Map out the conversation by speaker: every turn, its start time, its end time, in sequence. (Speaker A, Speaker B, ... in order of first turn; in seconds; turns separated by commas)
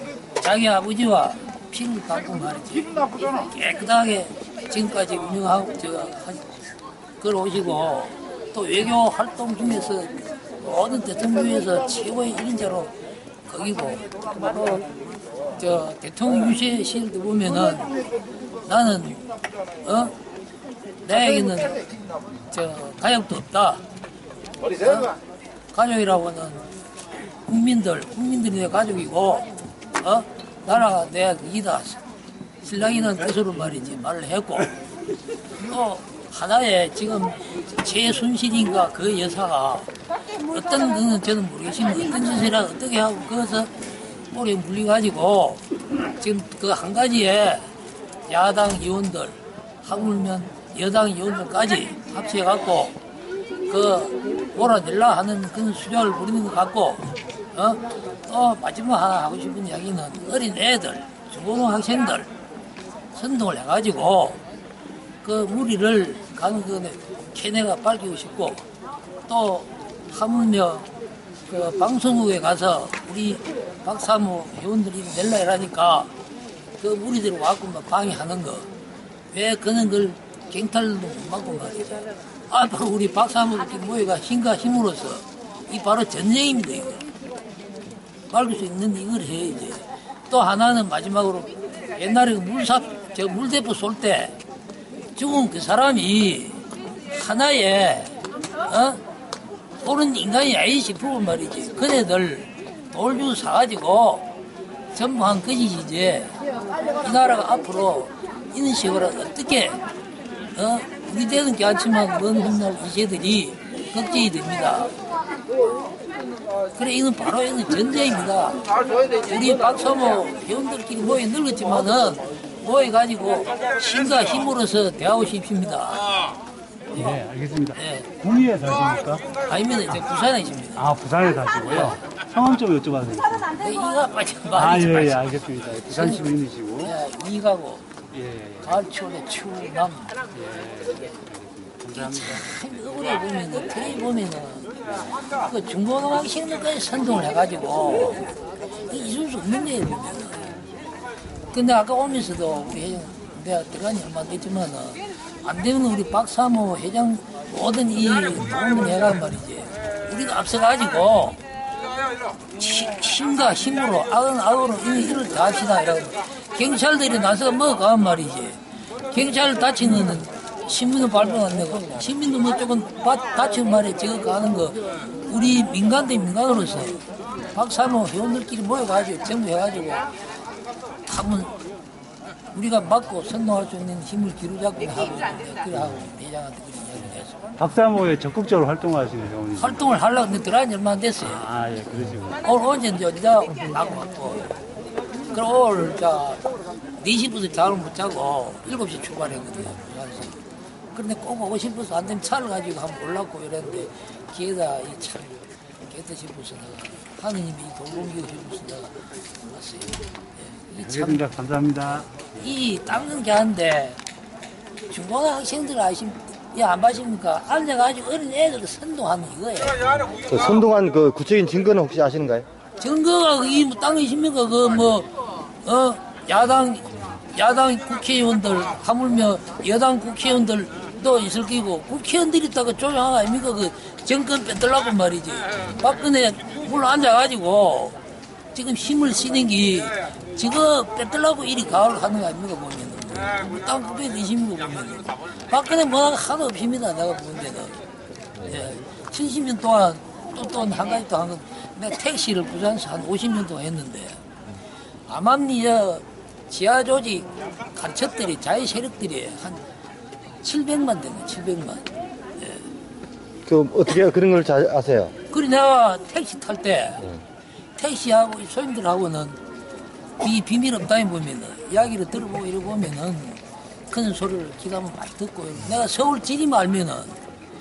Speaker A: 0.4-6.6, Speaker A: 7.2-12.9, Speaker A: 13.4-15.0, Speaker A: 15.5-18.0, Speaker A: 18.6-20.2, Speaker A: 21.0-21.9, Speaker A: 22.5-23.8, Speaker A: 24.7-25.2, Speaker A: 25.7-26.7, Speaker A: 27.4-32.0, Speaker A: 32.6-34.8, Speaker A: 35.5-39.9, Speaker A: 40.4-43.7, Speaker A: 44.3-47.7, Speaker A: 48.3-53.0, Speaker A: 53.7-62.3, Speaker A: 63.1-64.4, Speaker A: 65.2-68.7, Speaker A: 69.3-70.9, Speaker A: 71.5-76.1, Speaker A: 76.8-78.7, Speaker A: 79.3-87.1, Speaker A: 88.3-94.4, Speaker A: 95.1-99.0, Speaker A: 99.8-104.3, Speaker A: 104.9-106.3, Speaker A: 106.9-109.8, Speaker A: 110.5-114.9, Speaker A: 116.7-126.2, Speaker B: 126.9-129.3, Speaker A: 127.8-128.1, Speaker A: 129.4-130.9, Speaker B: 130.8-133.5, Speaker A: 131.7-132.0, Speaker A: 133.5-135.3, Speaker B: 134.6-136.9, Speaker A: 135.8-136.3, Speaker A: 136.8-137.9, Speaker B: 138.1-138.7, Speaker A: 138.6-140.2, Speaker B: 140.3-142.5, Speaker A: 141.9-150.5, Speaker A: 151.5-161.4, Speaker A: 162.5-180.1, Speaker A: 181.1-181.5, Speaker A: 182.5-187.4, Speaker B: 187.6-189.8, Speaker A: 189.6-191.5, Speaker B: 191.2-192.4, Speaker A: 192.4-194.6, Speaker A: 195.3-200.4, Speaker A: 200.9-211.3, Speaker B: 210.8-212.5, Speaker A: 212.0-214.0, Speaker A: 214.9-219.8, Speaker C: 220.2-222.5, Speaker A: 222.8-238.0, Speaker A: 238.5-247.8, Speaker C: 248.4-248.7, Speaker A: 248.4-254.2, Speaker A: 255.1-259.6, Speaker A: 260.4-261.9, Speaker A: 262.4-262.7, Speaker C: 263.4-265.1, Speaker A: 265.3-267.1, Speaker A: 267.8-269.4, Speaker A: 270.2-277.2